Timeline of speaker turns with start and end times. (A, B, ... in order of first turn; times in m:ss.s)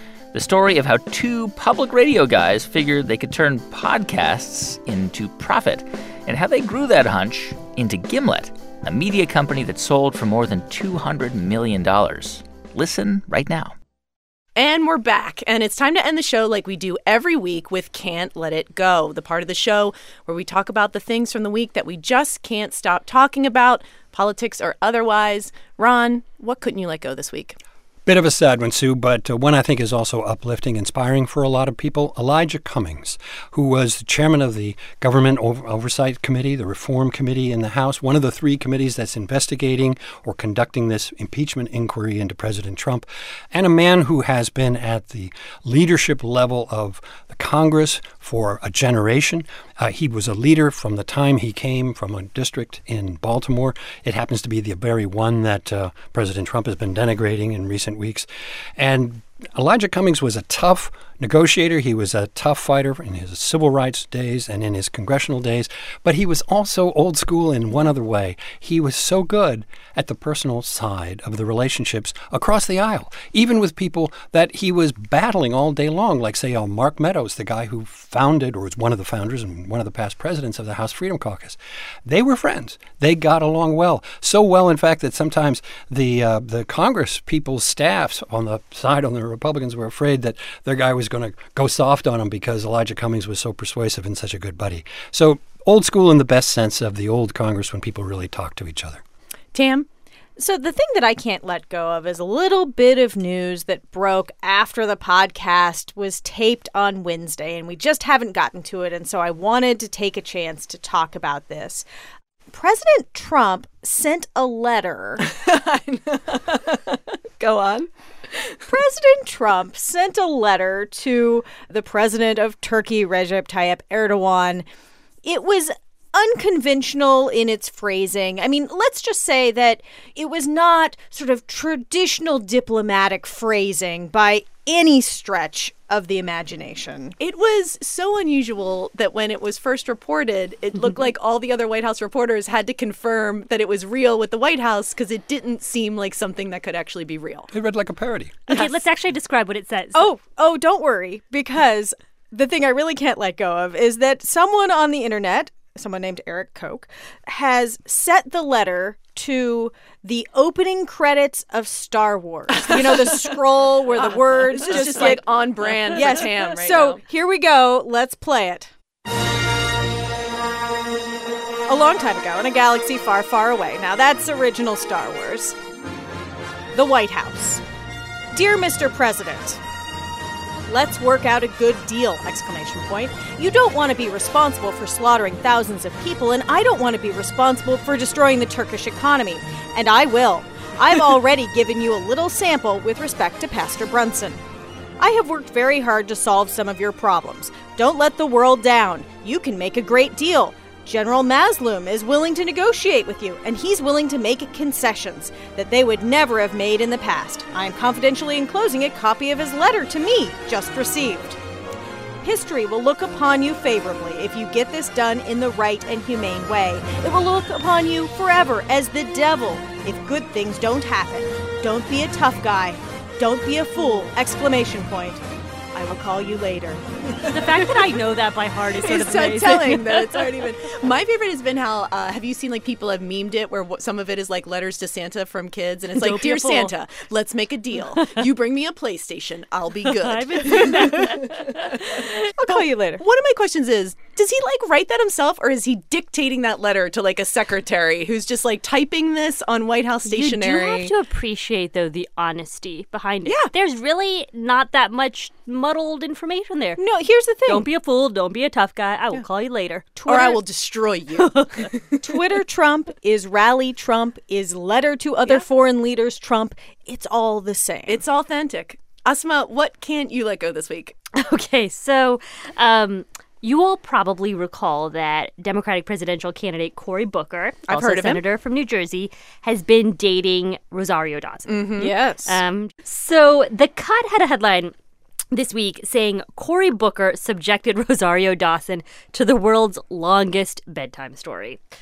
0:00.3-0:13.8 A
0:14.6-0:27.6 B
0:28.1-1:39.0 C
1:39.5-1:39.9 B
1:40.4-1:51.8 D
1:52.5-1:55.2 D
1:55.2-1:58.6 B
1:58.7-2:04.6 D
2:05.2-2:17.1 D
2:17.2-2:27.5 B
2:27.5-2:28.6 C
2:28.5-2:30.1 E
2:29.9-2:48.7 D
2:42.6-2:43.4 B
2:43.9-2:47.0 B
2:51.7-2:55.6 D
2:56.7-2:57.6 D
2:58.3-2:59.6 D
3:00.7-3:14.4 D
3:15.0-3:31.4 D
3:32.2-3:45.2 D
3:45.8-3:46.8 D
3:47.3-3:49.9 E
3:48.8-4:01.3 B
3:55.9-3:56.7 D
4:00.0-4:01.9 E
4:00.5-4:01.3 D
4:02.4-4:03.0 D
4:02.4-4:10.9 B
4:10.1-4:16.8 E
4:16.8-4:17.7 D
4:17.5-4:19.9 E
4:19.9-4:20.4 D
4:20.1-4:22.0 B
4:21.2-4:21.6 E
4:22.0-4:28.0 D
4:27.9-4:31.0 B
4:31.1-4:44.7 E
4:37.7-4:38.2 B
4:41.5-4:42.0 B
4:41.8-4:42.4 D
4:45.3-4:51.6 E